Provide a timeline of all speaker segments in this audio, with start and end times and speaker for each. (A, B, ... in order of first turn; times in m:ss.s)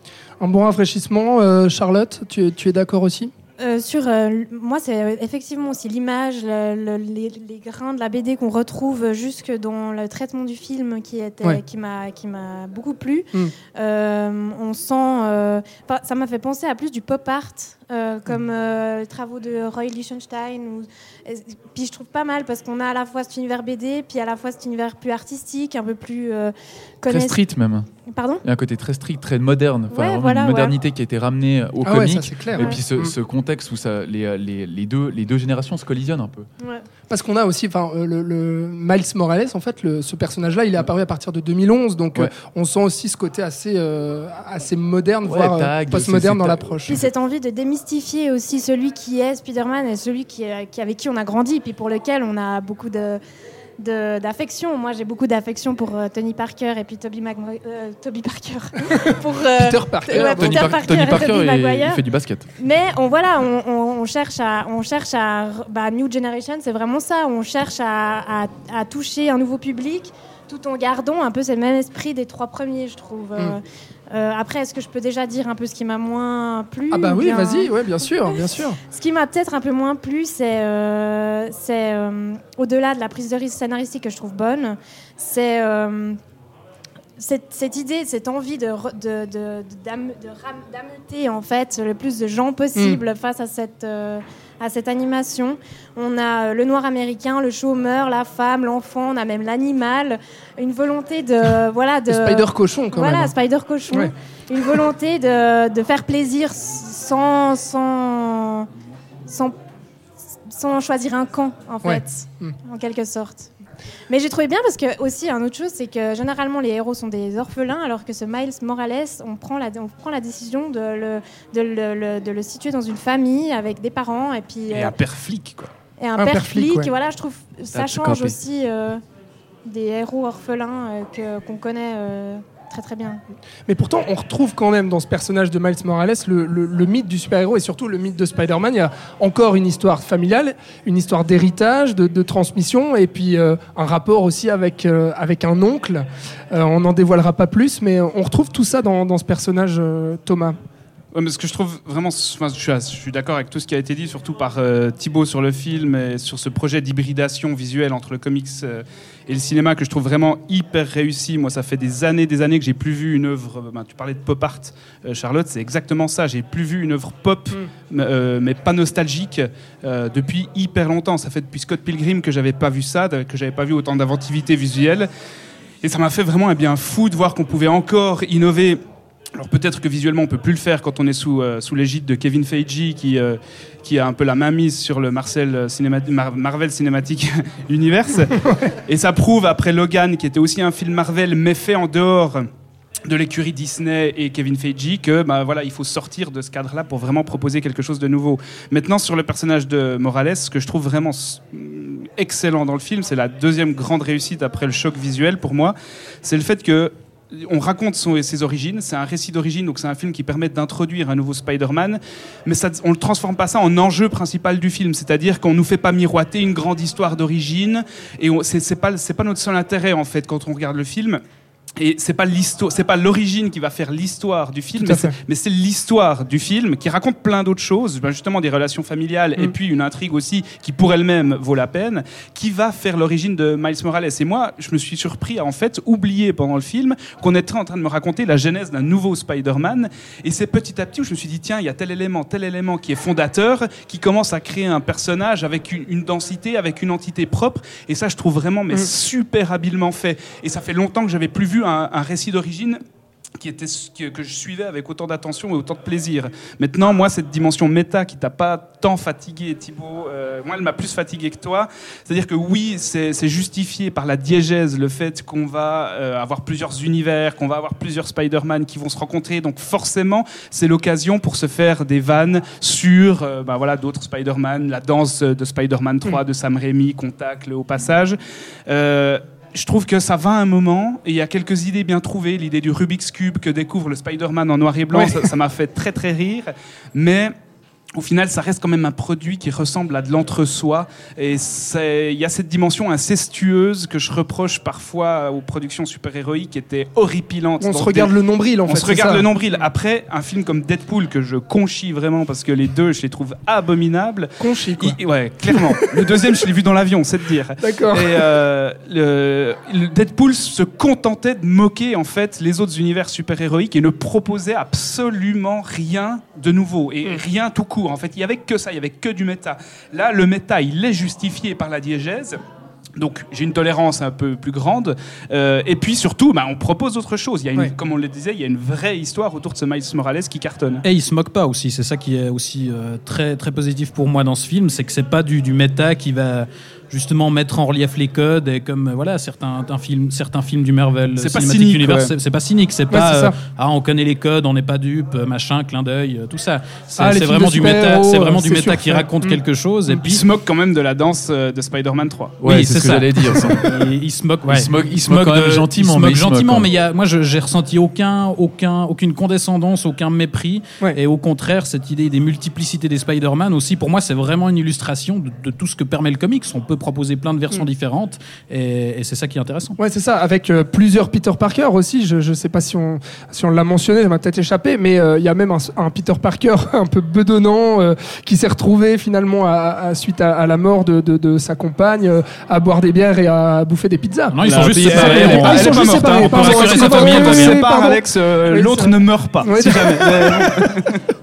0:00.4-0:03.3 A
0:03.6-0:27.4 B
0:27.1-0:27.9 C
0:28.1-0:28.4 B
0:28.4-0:36.5 C
0:29.9-0:30.8 B
0:31.8-0:33.1 A
0:36.6-0:36.8 B
0:37.1-0:47.0 A
0:45.2-0:46.7 C
0:46.9-0:53.2 B
0:53.8-1:02.0 B
0:59.6-1:00.8 A
1:00.2-1:02.5 C
1:02.6-1:17.7 B
1:16.9-1:18.8 A
1:18.9-1:26.2 B
1:27.2-1:48.7 B
1:42.1-1:43.3 A
1:49.3-1:49.6 B
1:50.5-1:53.5 B
1:51.8-1:52.6 A
1:54.1-2:05.0 B
2:04.7-2:05.7 D
2:06.0-2:09.0 B
2:06.2-2:06.9 A
2:07.7-2:08.4 C
2:09.6-2:13.2 B
2:13.7-2:30.6 A
2:31.1-2:55.1 D
2:55.8-2:58.8 D
2:59.4-3:08.4 D
3:08.9-3:12.5 D
3:13.1-3:41.2 D
3:41.8-4:12.8 D
3:44.8-3:45.1 A
4:13.4-4:38.2 D
4:38.7-4:47.3 D
4:44.9-4:45.2 A
4:48.0-4:58.1 D
4:57.6-4:59.3 A
4:58.7-5:22.4 D
5:04.4-5:05.0 A
5:05.5-5:06.0 A
5:07.6-5:08.3 A
5:23.0-5:30.8 D
5:30.8-5:50.2 E
5:41.2-5:42.1 D
5:42.9-5:43.3 A
5:47.0-5:49.4 A
5:50.0-5:52.4 D
5:52.4-5:53.8 C
5:52.4-6:09.8 E
5:54.5-5:56.7 C
6:09.8-6:30.8 A
6:24.3-6:27.6 E
6:24.4-6:31.0 D